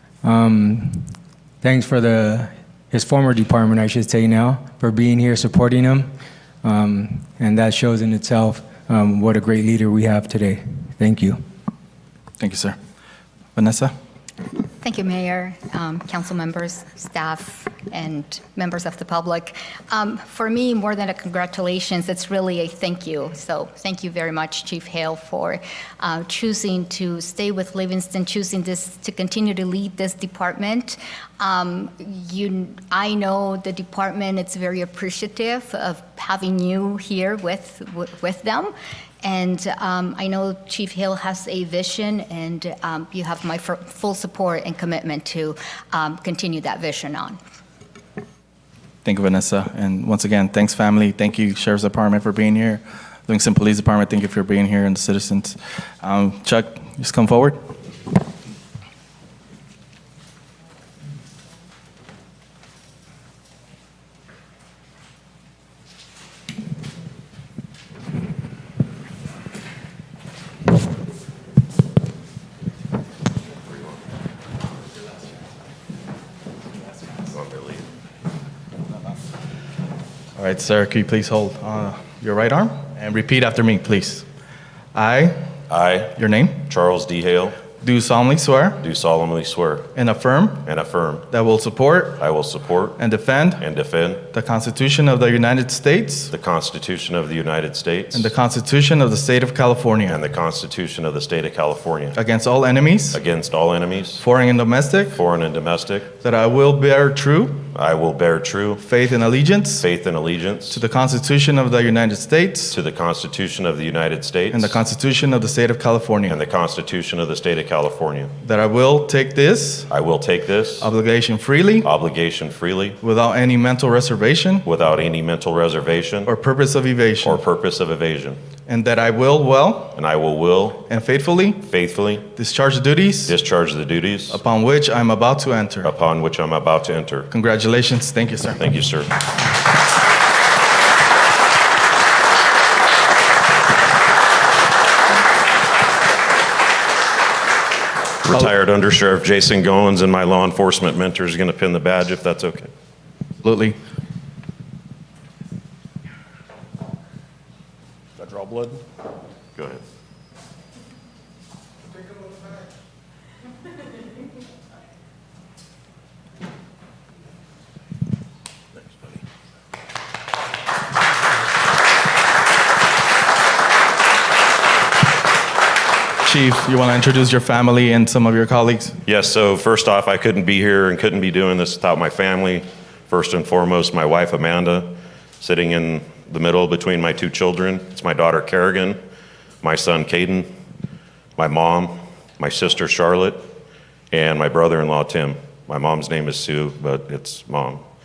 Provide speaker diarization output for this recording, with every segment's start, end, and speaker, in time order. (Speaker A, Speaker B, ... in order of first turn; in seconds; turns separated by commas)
Speaker A: 0.2-1.1, Speaker A: 1.6-6.1, Speaker A: 6.6-11.4, Speaker B: 12.4-12.8, Speaker B: 13.5-13.9, Speaker C: 14.8-47.4, Speaker B: 49.0-57.6, Speaker D: 77.3-77.9, Speaker B: 80.3-84.2, Speaker B: 84.9-85.3, Speaker D: 85.7-87.6, Speaker B: 86.2-86.6, Speaker B: 87.8-88.8, Speaker D: 88.8-89.9, Speaker B: 89.9-90.6, Speaker D: 90.6-91.3, Speaker B: 91.3-92.2, Speaker D: 92.2-93.0, Speaker B: 93.0-93.6, Speaker D: 93.6-94.3, Speaker B: 94.3-96.3, Speaker D: 96.3-98.3, Speaker B: 98.1-100.2, Speaker D: 100.1-102.2, Speaker B: 102.2-103.2, Speaker D: 103.1-104.2, Speaker B: 104.2-105.2, Speaker D: 105.1-106.1, Speaker B: 106.2-107.7, Speaker D: 107.7-108.8, Speaker B: 108.8-109.8, Speaker D: 109.8-110.8, Speaker B: 110.7-112.7, Speaker D: 112.7-114.8, Speaker B: 114.5-116.4, Speaker D: 116.3-118.3, Speaker B: 118.4-119.9, Speaker D: 119.9-120.9, Speaker B: 120.8-121.9, Speaker D: 121.8-123.0, Speaker B: 123.0-124.6, Speaker D: 124.6-126.3, Speaker B: 126.3-127.4, Speaker D: 127.2-128.4, Speaker B: 128.7-130.0, Speaker D: 129.9-130.9, Speaker B: 130.9-131.6, Speaker D: 131.6-132.3, Speaker B: 132.3-133.3, Speaker D: 133.3-134.4, Speaker B: 134.3-135.9, Speaker D: 135.8-137.3, Speaker B: 137.3-138.6, Speaker D: 138.6-139.2, Speaker D: 148.2-152.7, Speaker B: 153.4-153.8, Speaker D: 159.6-159.8, Speaker B: 176.2-178.9, Speaker D: 179.0-189.0, Speaker D: 189.6-190.5, Speaker D: 191.4-193.4, Speaker D: 194.1-197.8